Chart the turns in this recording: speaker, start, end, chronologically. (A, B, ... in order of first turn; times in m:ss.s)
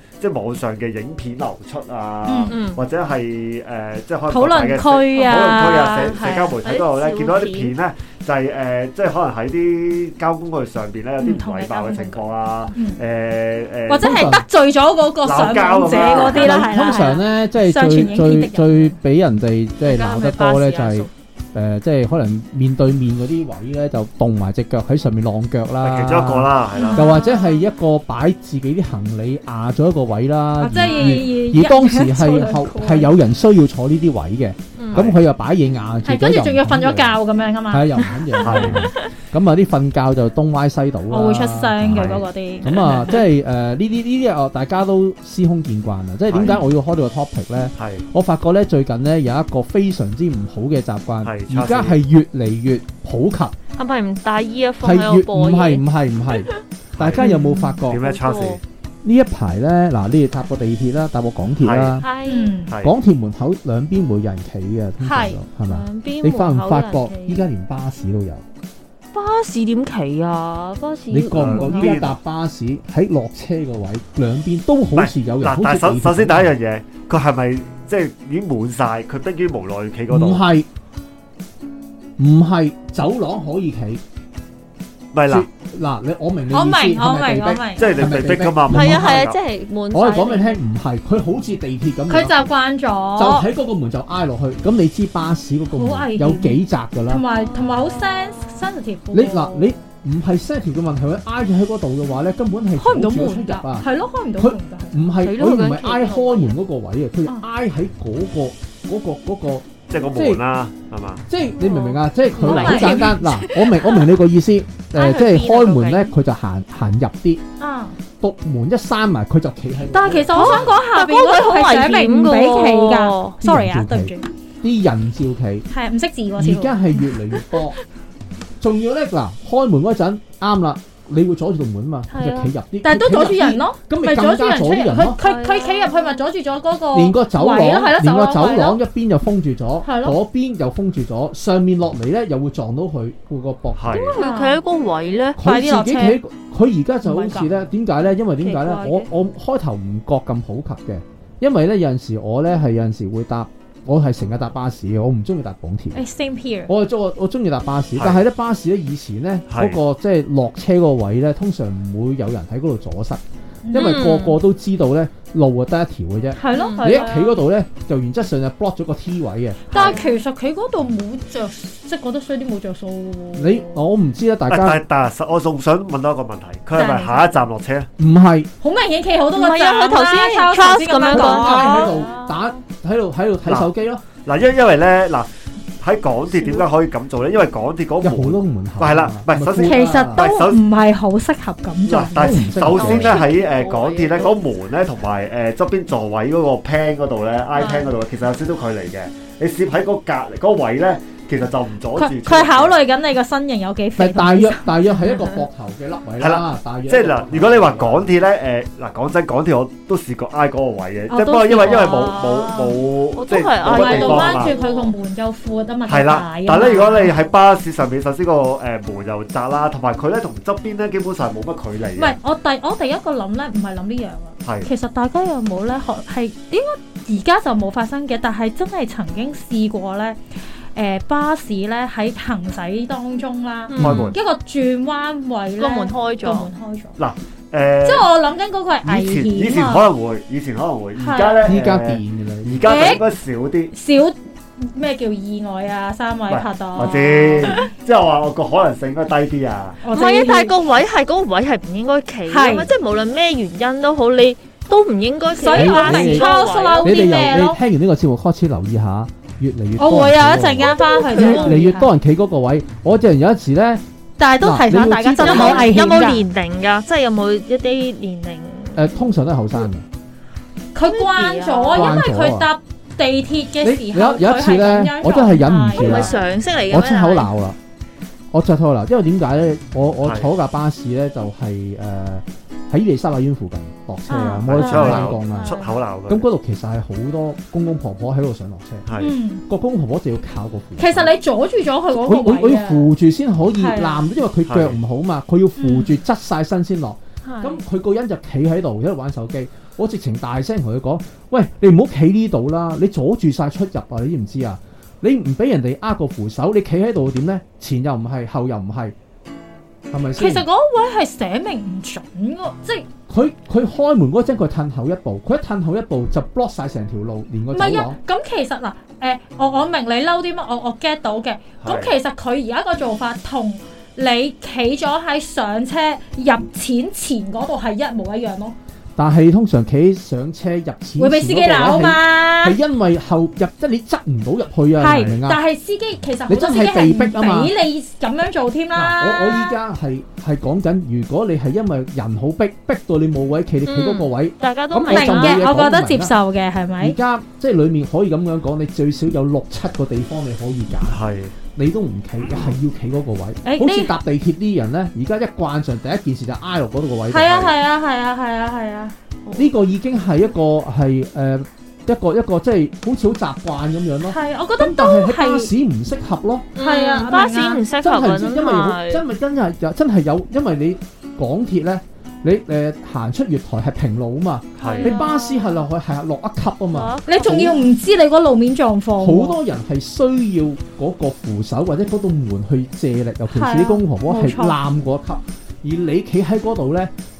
0:00.2-0:14.4 A
0:02.2-0:02.5 B
0:02.5-0:02.8 C
0:04.3-0:06.6 B
0:05.1-0:07.7 C
0:11.2-0:13.0 B
0:13.9-0:19.0 B
0:14.0-0:14.4 D
0:15.2-0:16.7 A
0:16.2-0:37.2 D
0:19.8-0:21.1 C
0:25.8-0:27.1 A
0:26.8-0:27.6 B
0:30.6-0:33.1 B
0:30.8-0:31.2 C
0:34.8-0:35.0 C
0:34.9-0:35.2 A
0:36.0-0:38.9 B
0:37.7-0:53.5 D
0:38.4-0:38.9 A
0:41.1-0:43.2 B
0:41.9-0:42.2 A
0:46.3-0:46.6 A
0:47.8-0:48.0 A
0:51.2-0:52.0 A
0:53.8-0:56.6 C
0:54.8-0:58.1 D
0:57.0-0:57.3 A
0:57.2-0:57.8 B
0:57.9-0:58.6 A
0:58.0-0:58.6 C
0:59.0-1:02.1 D
1:01.6-1:02.0 A
1:02.0-1:02.6 C
1:02.2-1:02.7 B
1:02.8-1:08.4 D
1:05.0-1:05.4 B
1:05.7-1:07.4 C
1:09.1-1:12.0 C
1:11.1-1:16.5 D
1:11.3-1:12.1 A
1:15.0-1:20.4 A
1:20.1-1:20.7 D
1:22.2-1:24.0 D
1:25.1-1:25.5 A
1:25.3-1:29.2 D
1:26.5-1:28.2 B
1:27.8-1:29.4 A
1:28.7-1:30.6 C
1:29.9-1:32.3 D
1:32.1-1:33.5 B
1:33.2-1:37.2 D
1:35.7-1:39.8 B
1:37.4-1:38.7 C
1:39.1-1:50.4 D
1:42.8-1:45.1 B
1:45.2-1:46.6 C
1:49.9-1:51.2 A
1:51.3-1:57.4 D
1:51.6-1:54.1 C
1:51.6-1:53.2 B
1:54.9-1:56.1 C
1:57.6-1:58.0 B
1:58.2-2:00.7 D
1:59.9-2:04.3 B
2:00.3-2:03.3 C
2:03.4-2:05.7 D
2:05.7-2:06.8 B
2:06.4-2:07.8 D
2:07.3-2:07.7 C
2:08.6-2:15.2 D
2:12.1-2:12.5 C
2:12.8-2:18.8 B
2:15.2-2:16.2 C
2:16.9-2:24.1 D
2:19.8-2:20.2 B
2:23.8-2:24.2 A
2:23.9-2:25.4 C
2:24.2-2:24.6 B
2:25.4-2:36.0 D
2:25.4-2:26.2 B
2:27.0-2:27.5 B
2:28.4-2:29.1 C
2:35.9-2:36.7 B
2:36.7-2:50.0 D
2:37.9-2:38.2 A
2:39.5-2:39.8 A
2:43.6-2:44.1 B
2:43.7-2:44.4 C
2:46.3-2:47.4 B
2:46.5-2:47.3 C
2:49.7-2:53.8 B
2:49.7-2:50.1 C
2:53.4-2:54.8 D
2:54.5-2:57.9 A
2:56.7-2:57.4 B
2:58.0-2:58.5 D
2:58.6-3:01.9 B
2:59.4-3:02.5 C
3:01.1-3:04.0 D
3:04.2-3:05.3 A
3:05.8-3:10.6 A
3:06.3-3:06.6 C
3:08.0-3:10.2 D
3:09.6-3:12.5 B
3:11.8-3:22.8 A
3:12.2-3:13.3 D
3:12.7-3:14.4 C
3:17.6-3:17.9 B
3:22.0-3:25.3 B
3:24.0-3:28.1 D
3:26.2-3:34.6 A
3:31.1-3:32.8 B
3:31.5-3:32.1 C
3:33.2-3:34.9 C
3:33.6-3:37.2 B
3:35.9-3:42.2 A
3:42.0-3:50.2 B
3:44.4-3:44.7 A
3:50.7-3:57.0 B
3:53.7-3:54.1 C
3:53.8-3:54.2 A
3:55.6-3:56.5 C
3:57.0-3:58.1 A
3:57.8-3:59.8 B
3:58.8-4:03.7 A
4:01.0-4:01.4 B
4:01.4-4:03.0 D
4:02.6-4:03.0 B
4:03.7-4:07.7 B
4:06.3-4:09.8 A
4:06.8-4:07.6 C
4:09.8-4:10.5 B
4:09.9-4:17.0 C
4:12.3-4:12.7 B
4:15.4-4:17.6 B
4:15.5-4:16.3 D
4:16.8-4:23.8 D
4:19.8-4:21.9 B
4:20.7-4:21.6 C
4:24.2-4:26.2 B
4:24.4-4:26.0 D
4:25.2-4:29.0 C
4:28.7-4:29.8 D
4:30.7-4:36.2 B
4:30.8-4:31.9 C
4:31.7-4:32.5 D
4:33.6-4:37.6 D
4:35.7-4:37.3 C
4:38.3-4:48.9 D
4:40.0-4:40.3 A
4:44.1-4:45.7 B
4:44.4-4:46.2 A
4:44.8-4:45.6 C
4:48.9-4:49.1 A
4:49.0-4:49.4 B
4:49.5-4:51.1 D
4:50.8-4:52.9 B
4:51.9-5:08.9 D
4:53.6-4:54.1 B
4:54.5-4:54.8 A
4:55.6-4:55.9 B
4:57.2-4:57.6 C
5:09.9-5:10.5 D
5:10.2-5:12.9 B
5:13.1-5:18.0 D
5:17.5-5:28.5 B
5:21.6-5:21.9 A
5:29.0-5:35.4 D
5:31.0-5:32.6 B
5:34.8-5:39.5 B
5:34.9-5:35.2 A
5:36.3-5:37.5 D
5:38.7-5:46.1 D
5:43.6-5:45.4 C
5:44.9-5:47.0 B
5:46.8-5:51.0 D
5:50.9-5:51.3 A
5:51.5-5:57.6 D
5:53.4-5:53.9 B
5:57.1-5:58.9 B
5:59.3-6:06.5 D
6:04.0-6:05.5 B
6:06.5-6:09.0 C
6:06.6-6:07.6 B
6:07.8-6:17.6 D
6:14.6-6:14.9 A
6:14.6-6:15.2 C
6:14.8-6:15.4 B
6:16.7-6:17.7 C
6:17.1-6:19.4 B
6:19.0-6:26.9 D
6:23.3-6:24.6 B